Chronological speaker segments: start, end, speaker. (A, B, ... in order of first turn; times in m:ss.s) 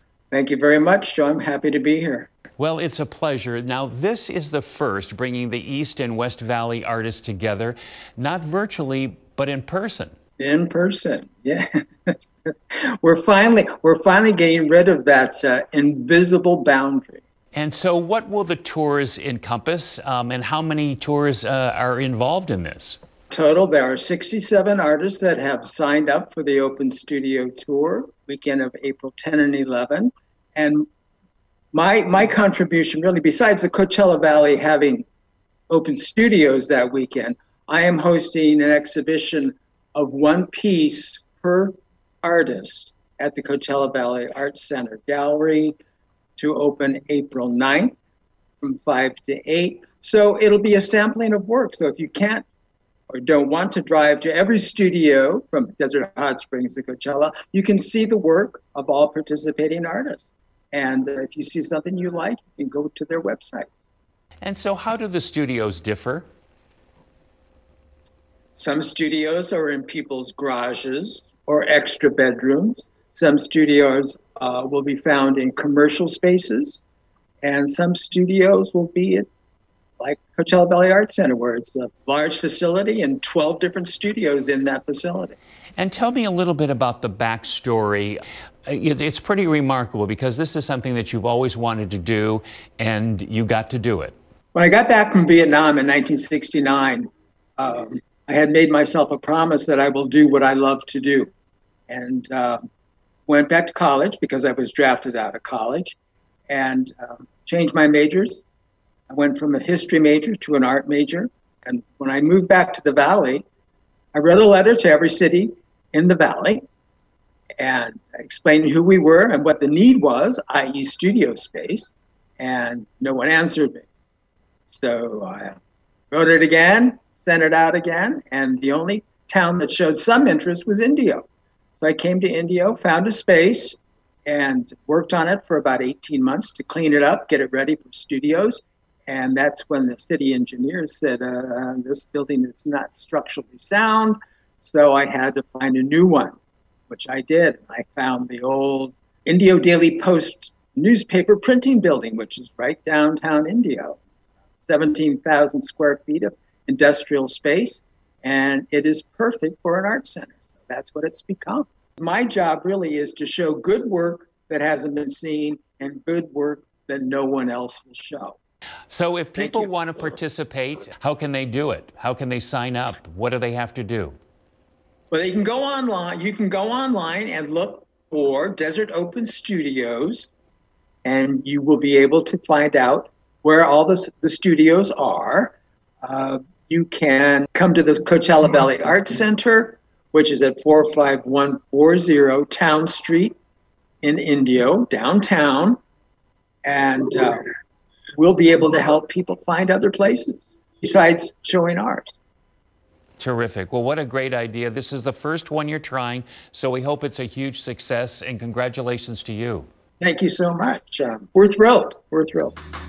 0:00.3-0:02.3 A
0:02.6-0:10.2 B
0:10.4-0:17.2 A
0:17.5-0:23.0 B
0:23.3-0:30.9 A
0:31.7-0:35.1 A
0:35.7-0:45.8 A
0:46.4-0:48.0 A
0:48.6-0:52.5 A
0:53.1-1:03.7 A
1:04.4-1:06.3 B
1:08.6-1:16.8 A
1:17.4-1:19.3 A
1:20.0-1:25.4 A
1:25.8-1:34.2 B
1:34.5-1:41.3 A
1:41.9-1:42.7 A
1:43.3-1:46.0 A
1:46.5-1:48.4 A
1:49.1-1:53.5 A
1:54.1-1:56.6 A
1:57.6-2:03.9 A
2:04.7-2:05.6 A
2:06.1-2:11.3 A
2:11.8-2:26.4 A
2:26.9-2:34.0 A
2:34.6-2:48.4 A
2:48.9-2:54.2 B
2:49.4-2:49.7 A
2:55.1-3:00.3 A
3:01.0-3:13.4 A
3:14.0-3:15.8 A
3:16.6-3:17.5 A
3:18.2-3:22.2 A
3:23.2-3:29.7 B
3:30.0-3:32.6 A